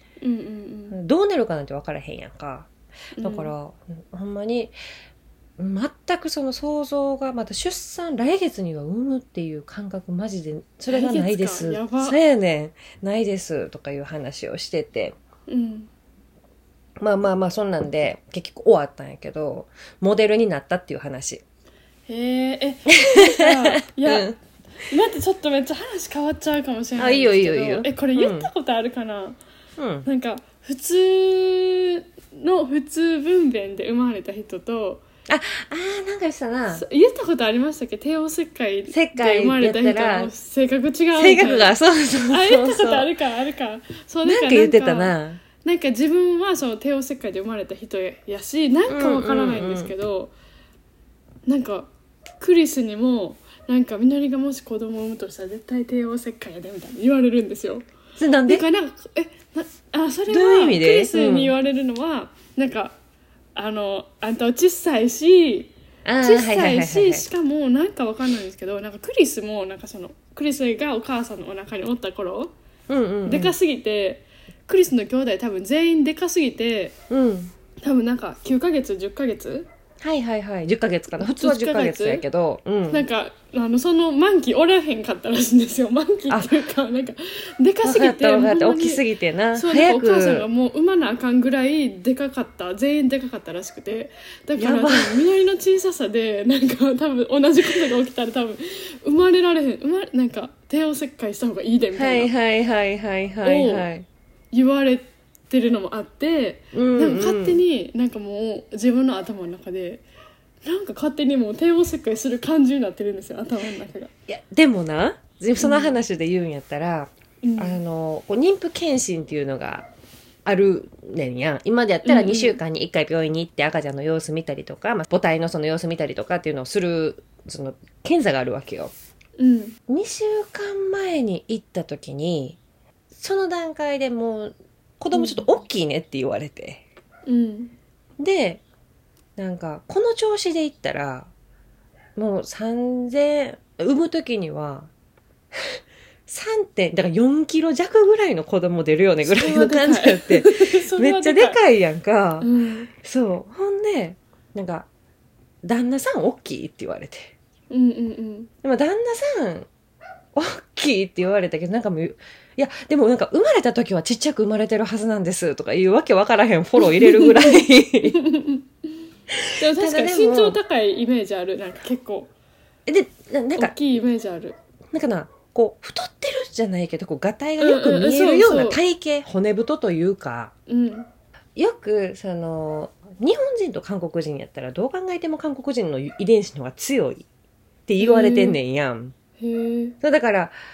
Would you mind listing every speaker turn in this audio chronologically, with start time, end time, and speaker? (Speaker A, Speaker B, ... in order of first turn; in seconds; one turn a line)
Speaker A: 0.2-1.0
Speaker B: 0.9-4.8
Speaker A: 3.2-3.5
Speaker B: 5.6-15.2
Speaker A: 10.9-12.2
Speaker A: 15.5-15.9
Speaker B: 17.0-21.4
Speaker A: 22.1-24.3
Speaker B: 23.0-24.4
Speaker A: 24.9-29.4
Speaker B: 27.0-28.5
Speaker B: 29.8-30.1
Speaker A: 30.1-35.0
Speaker B: 35.3-36.9
Speaker A: 36.7-41.7
Speaker B: 38.9-40.3
Speaker B: 41.2-43.1
Speaker A: 42.3-50.3
Speaker B: 44.2-45.4
Speaker B: 48.9-49.9
Speaker A: 51.5-57.9
Speaker B: 58.2-58.7
Speaker A: 58.5-63.0
Speaker B: 60.3-61.5
Speaker A: 63.5-72.5
Speaker B: 66.0-67.3
Speaker B: 72.9-73.5
Speaker A: 73.3-77.0
Speaker B: 77.1-77.5
Speaker A: 77.8-79.7
Speaker B: 80.0-83.1
Speaker A: 81.2-82.2
Speaker A: 82.9-89.0
Speaker B: 87.8-90.5
Speaker A: 89.5-102.3
Speaker B: 94.6-95.2
Speaker B: 102.0-104.1
Speaker A: 103.4-103.9
Speaker A: 104.5-110.0
Speaker B: 106.7-107.6
Speaker A: 110.6-114.1
Speaker B: 114.3-119.9
Speaker A: 115.6-116.0
Speaker A: 117.4-117.8
Speaker B: 120.5-128.9
Speaker A: 122.0-122.6
Speaker A: 129.4-129.8
Speaker B: 129.9-132.6
Speaker B: 133.2-136.8
Speaker A: 135.1-135.5
Speaker A: 137.3-137.7
Speaker B: 138.2-138.6
Speaker B: 139.4-141.3
Speaker B: 142.2-144.9
Speaker B: 145.6-154.9
Speaker A: 149.2-151.6
Speaker A: 152.4-152.9
Speaker B: 155.6-157.3
Speaker A: 157.7-158.5
Speaker B: 158.6-159.7
Speaker B: 160.3-168.2
Speaker A: 166.8-168.7
Speaker B: 169.3-170.6
Speaker A: 169.6-172.3
Speaker B: 172.9-173.8
Speaker A: 173.6-174.6
Speaker B: 174.9-180.5
Speaker A: 177.6-178.8
Speaker A: 180.7-181.1
Speaker B: 181.6-187.3
Speaker B: 187.9-189.2
Speaker A: 188.0-188.6
Speaker A: 189.4-190.0
Speaker B: 190.0-190.5